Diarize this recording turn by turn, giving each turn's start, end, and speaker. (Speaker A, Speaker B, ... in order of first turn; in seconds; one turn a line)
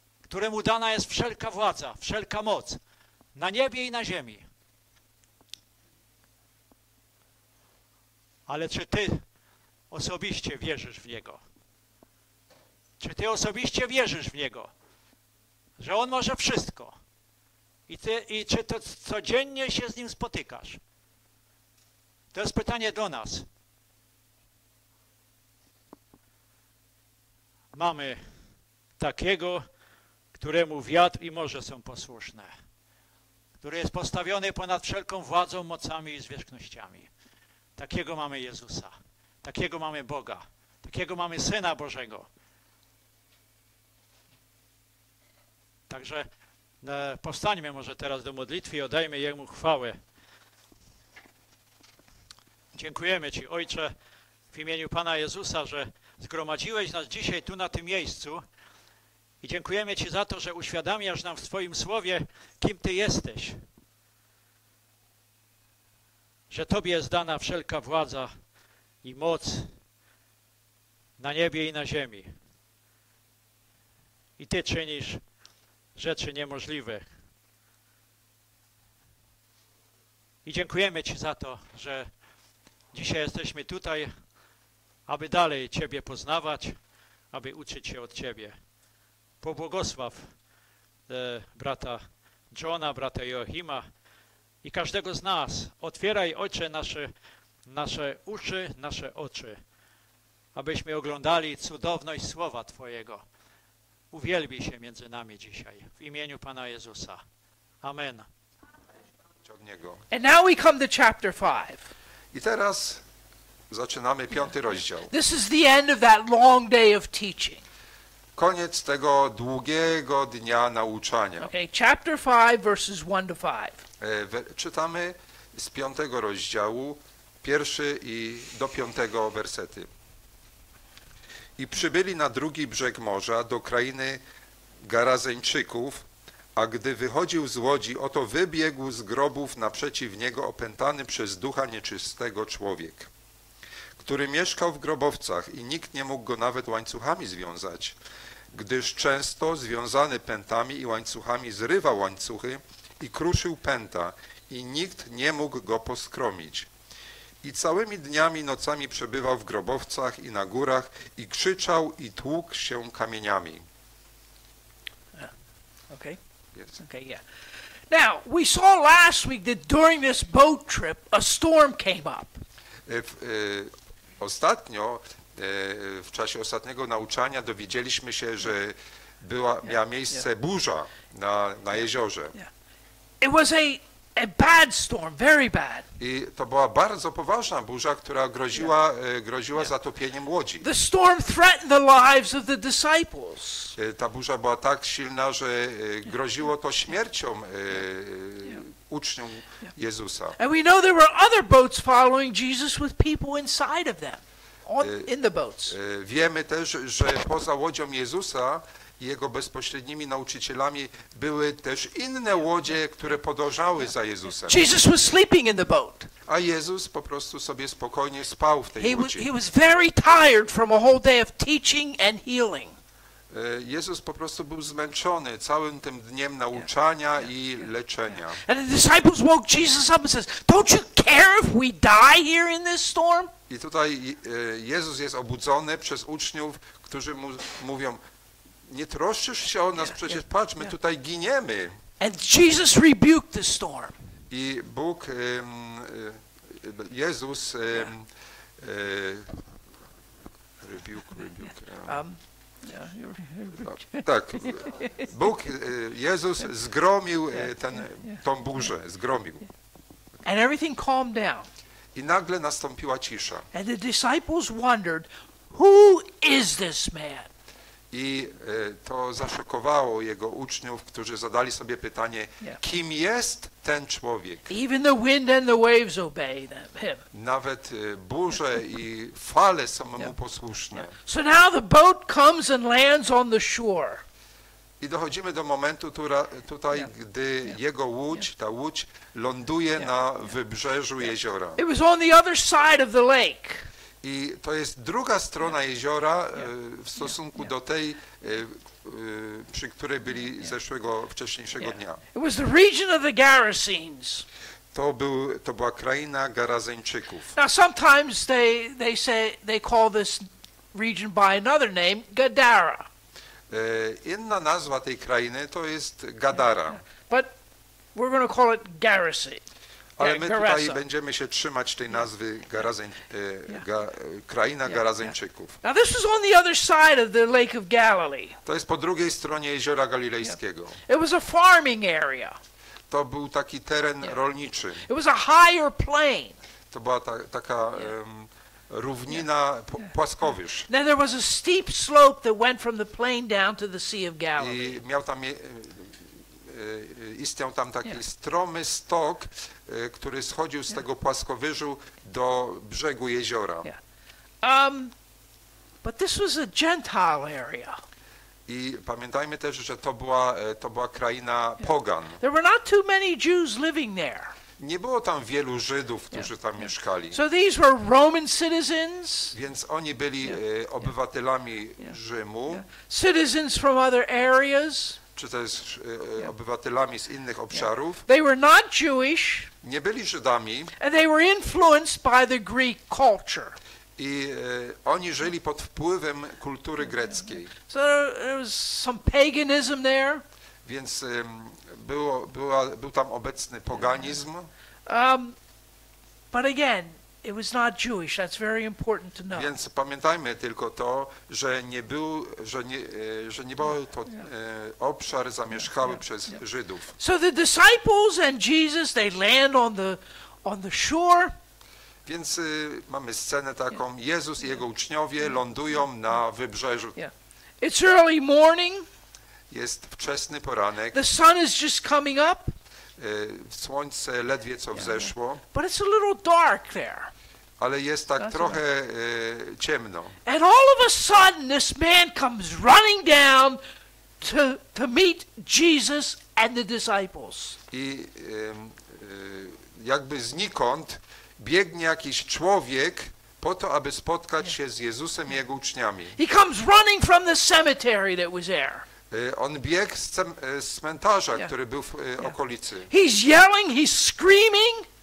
Speaker A: 0.3-2.8
Speaker A: 3.4-4.5
Speaker A: 8.5-9.2
Speaker A: 9.9-11.4
Speaker A: 13.0-14.7
Speaker A: 15.8-16.9
Speaker A: 17.9-20.8
Speaker A: 22.3-23.5
Speaker A: 27.7-28.2
Speaker A: 29.0-29.6
Speaker A: 30.4-32.5
Speaker A: 33.6-37.1
Speaker A: 37.8-38.9
Speaker A: 39.4-42.3
Speaker A: 45.9-46.3
Speaker A: 46.8-50.0
Speaker A: 52.8-53.9
Speaker A: 54.5-58.4
Speaker A: 59.4-63.6
Speaker A: 66.5-68.3
Speaker A: 69.0-69.7
Speaker A: 71.2-72.3
Speaker A: 74.4-75.2
Speaker A: 76.0-77.1
Speaker A: 80.5-82.1
Speaker A: 82.9-84.1
Speaker A: 85.1-86.8
Speaker A: 87.3-88.6
Speaker A: 89.4-90.3
Speaker A: 91.1-93.9
Speaker A: 94.6-97.1
Speaker A: 97.7-99.6
Speaker A: 100.5-103.2
Speaker A: 104.1-107.2
Speaker A: 107.8-108.3
Speaker B: 109.4-110.0
Speaker C: 110.1-111.8
Speaker B: 112.3-113.0
Speaker B: 113.7-115.1
Speaker C: 115.1-117.6
Speaker B: 118.4-121.5
Speaker C: 121.4-123.8
Speaker B: 124.0-129.9
Speaker B: 131.6-134.2
Speaker B: 134.8-143.1
Speaker B: 144.0-148.0
Speaker B: 148.5-156.7
Speaker B: 157.4-163.6
Speaker C: 165.9-166.2
Speaker C: 166.8-167.2
Speaker C: 167.9-172.4
Speaker B: 172.9-182.3
Speaker C: 183.2-185.9
Speaker B: 186.0-190.7
Speaker C: 190.6-193.8
Speaker B: 193.8-200.4
Speaker C: 200.4-205.8
Speaker B: 204.8-205.1
Speaker B: 205.7-214.7
Speaker C: 214.5-216.1
Speaker B: 216.3-219.3
Speaker C: 218.8-222.7
Speaker B: 223.3-228.4
Speaker C: 228.4-233.3
Speaker B: 233.5-238.0
Speaker B: 238.7-241.8
Speaker C: 242.0-243.9
Speaker B: 244.3-248.1
Speaker B: 248.6-249.4
Speaker B: 250.6-252.0
Speaker C: 251.9-255.1
Speaker B: 253.6-259.5
Speaker C: 257.4-258.2
Speaker C: 260.2-261.5
Speaker B: 261.9-263.5
Speaker C: 263.5-267.3
Speaker B: 267.9-274.5
Speaker C: 274.5-277.0
Speaker B: 277.1-280.9
Speaker C: 280.9-284.0
Speaker B: 284.8-291.6
Speaker C: 291.6-293.7
Speaker B: 294.0-302.0
Speaker C: 301.6-304.3
Speaker B: 304.7-307.3
Speaker C: 307.4-312.9
Speaker B: 313.5-316.8
Speaker C: 316.9-317.4
Speaker C: 317.9-319.4
Speaker B: 320.0-325.6
Speaker C: 320.0-320.8
Speaker C: 325.6-328.4
Speaker B: 328.4-330.8
Speaker C: 330.9-332.4
Speaker B: 332.9-334.9
Speaker C: 334.9-336.4
Speaker B: 336.7-340.7
Speaker C: 340.7-344.8
Speaker B: 344.4-353.7
Speaker C: 354.4-354.9
Speaker C: 355.8-357.8
Speaker B: 358.5-362.2
Speaker C: 362.2-364.3
Speaker B: 364.6-367.2
Speaker C: 367.1-369.4
Speaker B: 369.3-372.7
Speaker C: 372.5-375.0
Speaker B: 375.1-378.1
Speaker C: 377.6-379.5
Speaker B: 379.6-380.7
Speaker C: 380.8-383.6
Speaker B: 384.0-387.5
Speaker C: 387.5-390.2
Speaker B: 390.6-394.5
Speaker C: 394.9-395.4
Speaker C: 396.3-399.5
Speaker B: 399.3-406.9
Speaker C: 407.0-411.3
Speaker B: 412.1-417.0
Speaker C: 417.0-418.9
Speaker B: 419.5-421.0
Speaker C: 420.9-422.5
Speaker B: 423.0-425.4
Speaker C: 424.8-427.1
Speaker B: 427.6-430.2
Speaker C: 428.2-428.6
Speaker C: 430.2-433.6
Speaker C: 434.2-437.6
Speaker B: 437.7-446.2
Speaker C: 446.2-448.9
Speaker B: 449.1-452.9
Speaker C: 452.9-454.9